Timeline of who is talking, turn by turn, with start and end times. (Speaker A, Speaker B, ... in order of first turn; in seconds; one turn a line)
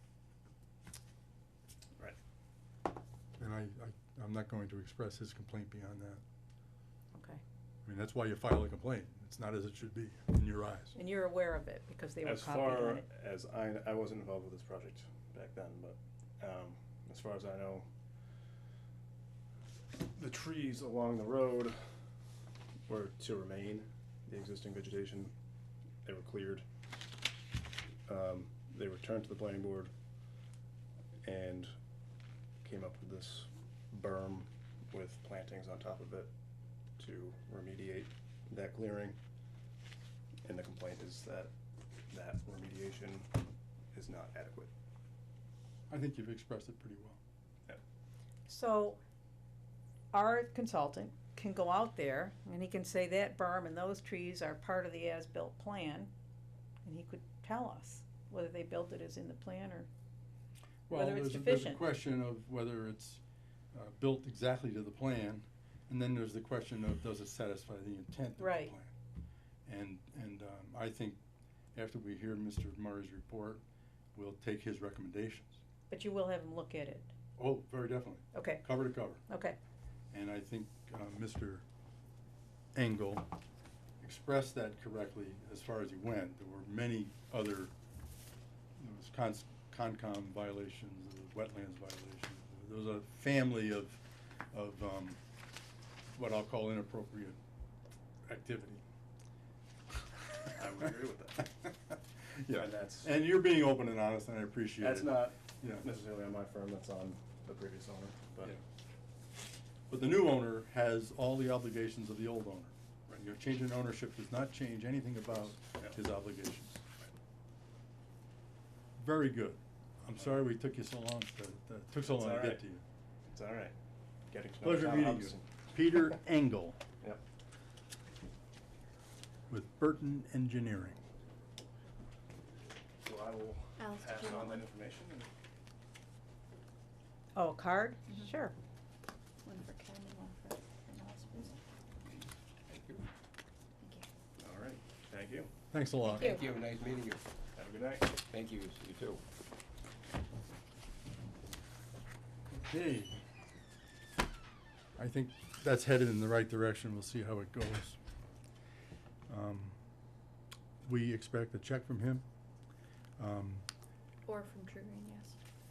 Speaker A: 3.4-6.2
Speaker B: 7.1-7.4
Speaker A: 7.8-11.0
Speaker B: 10.9-13.1
Speaker C: 12.2-17.9
Speaker C: 20.2-21.8
Speaker C: 22.9-25.3
Speaker C: 26.0-26.6
Speaker C: 28.1-29.9
Speaker C: 31.2-31.7
Speaker C: 32.6-36.3
Speaker C: 37.0-39.2
Speaker C: 40.4-41.5
Speaker C: 42.1-43.3
Speaker C: 43.9-44.7
Speaker A: 45.9-47.2
Speaker B: 48.5-49.0
Speaker B: 50.1-56.1
Speaker B: 56.8-59.9
Speaker B: 60.9-61.8
Speaker A: 60.9-63.2
Speaker A: 63.7-68.9
Speaker B: 68.4-68.7
Speaker A: 69.7-71.2
Speaker A: 71.7-73.6
Speaker A: 74.2-75.6
Speaker B: 75.9-77.1
Speaker A: 77.4-79.2
Speaker B: 78.3-79.6
Speaker A: 80.1-81.6
Speaker A: 82.8-83.3
Speaker A: 84.0-87.7
Speaker A: 88.8-95.2
Speaker A: 96.2-97.4
Speaker A: 98.3-98.8
Speaker C: 100.5-101.5
Speaker A: 101.5-105.9
Speaker C: 102.5-103.1
Speaker C: 104.8-108.5
Speaker A: 109.9-116.8
Speaker A: 119.0-122.8
Speaker C: 122.0-122.6
Speaker C: 123.3-123.8
Speaker C: 124.3-125.5
Speaker A: 124.6-126.8
Speaker A: 129.5-131.0
Speaker C: 133.0-135.3
Speaker D: 133.8-134.6
Speaker B: 137.3-138.6
Speaker D: 139.4-141.6
Speaker E: 142.7-143.0
Speaker D: 143.8-144.1
Speaker C: 144.4-145.5
Speaker A: 145.7-146.4
Speaker E: 146.1-147.2
Speaker B: 146.1-146.4
Speaker C: 147.6-148.2
Speaker E: 148.2-149.2
Speaker A: 152.5-153.2
Speaker A: 155.0-158.0
Speaker A: 159.3-159.8
Speaker A: 160.8-162.3
Speaker A: 163.2-163.7
Speaker D: 164.3-165.4